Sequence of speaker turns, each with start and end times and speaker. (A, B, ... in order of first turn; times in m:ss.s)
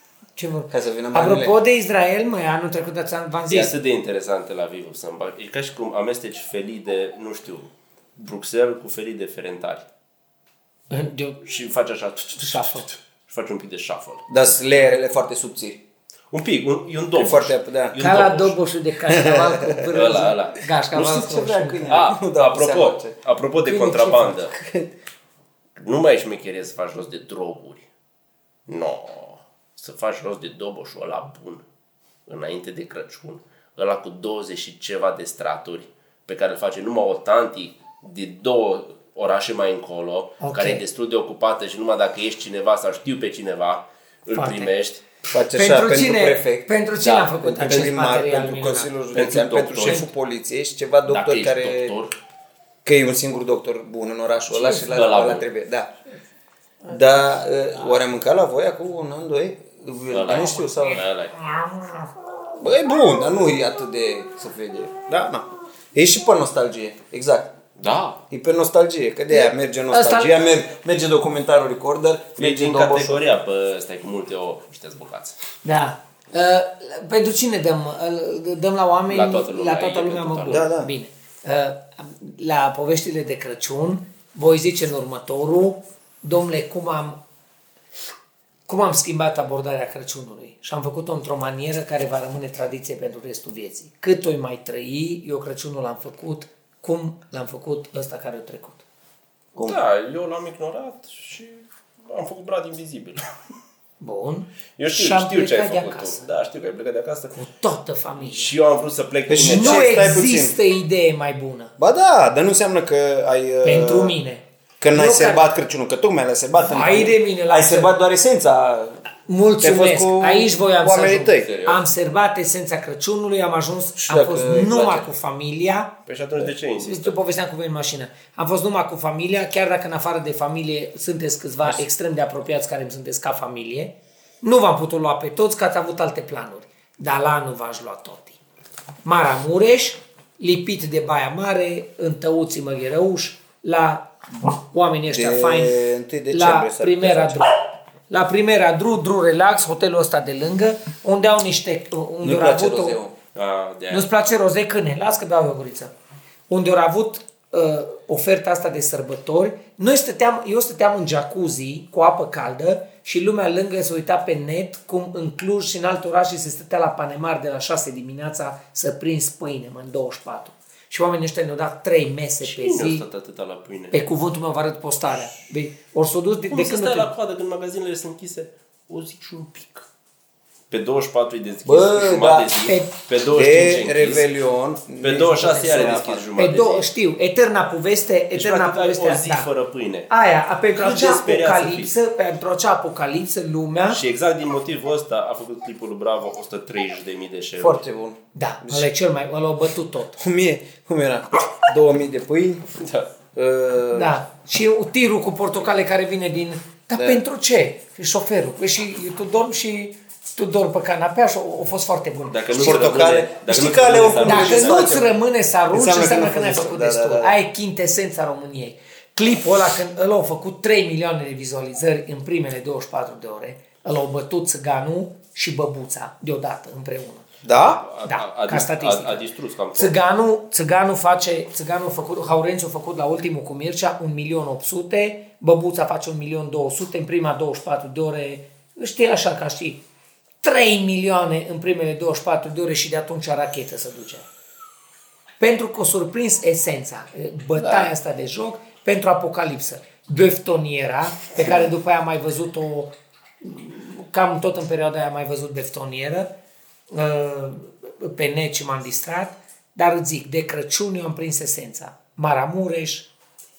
0:00.4-0:03.7 A
0:00.7-0:01.5 B
0:03.5-0:09.9 C
0:10.9-0:11.4 A
0:11.4-0:14.2 C
0:12.4-0:12.9 A
0:14.3-0:15.8 B
0:16.3-0:18.6 C
0:17.2-0:18.0 B
0:18.0-0:21.9 A
0:19.1-0:20.0 B
0:19.9-0:24.5 C
0:21.2-0:23.1 B
0:23.6-0:24.4 A
0:24.5-0:24.9 B
0:25.8-0:27.8 C
0:28.7-0:31.6 C
0:32.2-0:45.0 C
0:40.4-0:40.8 A
0:44.3-0:44.7 A
0:45.3-0:46.7 B
0:45.5-0:48.9 A
0:47.0-0:47.9 C
0:47.4-0:51.9 B
0:49.1-0:50.0 C
0:51.0-0:52.1 C
0:52.8-0:55.9 B
0:54.6-0:55.4 C
0:56.9-1:01.0 B
1:00.1-1:01.3 C
1:02.6-1:07.5 B
1:07.8-1:08.2 C
1:08.3-1:13.2 B
1:09.3-1:10.5 A
1:12.4-1:15.4 C
1:15.6-1:27.2 A
1:19.1-1:20.7 C
1:20.5-1:20.9 B
1:28.7-1:38.8 A
1:39.6-1:43.2 C
1:44.0-1:46.2 A
1:44.8-1:47.4 C
1:47.3-1:48.5 A
1:48.2-1:50.0 C
1:49.3-1:50.6 B
1:49.4-1:51.7 A
1:51.8-1:54.2 B
1:53.6-1:55.5 A
1:54.8-1:59.0 B
1:56.6-1:57.9 A
1:59.3-2:05.9 A
1:59.6-2:01.5 B
2:01.4-2:01.8 C
2:04.0-2:05.1 B
2:06.0-2:07.1 C
2:06.6-2:18.4 A
2:19.0-2:27.5 A
2:25.1-2:27.4 B
2:28.1-2:33.0 A
2:32.2-2:33.1 B
2:33.3-2:34.1 C
2:33.9-2:35.9 A
2:36.5-2:53.0 A
2:52.4-2:54.0 C
2:53.9-2:57.1 A
2:56.5-2:59.8 C
3:00.7-3:04.2 C
3:01.6-3:02.7 B
3:02.6-3:02.9 A
3:03.3-3:06.2 B
3:05.0-3:06.8 C
3:05.4-3:09.5 A
3:08.3-3:10.1 C
3:10.1-3:14.0 A
3:10.8-3:11.9 C
3:13.9-3:17.8 C
3:17.6-3:18.9 B
3:18.3-3:20.2 A
3:20.2-3:22.6 B
3:22.8-3:23.1 C
3:23.3-3:24.1 B
3:23.9-3:32.8 A
3:26.9-3:27.2 B
3:32.3-3:34.8 C
3:32.5-3:35.1 B
3:34.2-3:47.3 A
3:35.7-3:37.4 B
3:47.4-3:47.8 B
3:47.5-3:49.9 C
3:48.0-3:49.2 A
3:49.7-3:59.8 A
4:00.4-4:04.2 A
4:05.4-4:16.3 A
4:07.6-4:07.9 B
4:16.9-4:23.1 A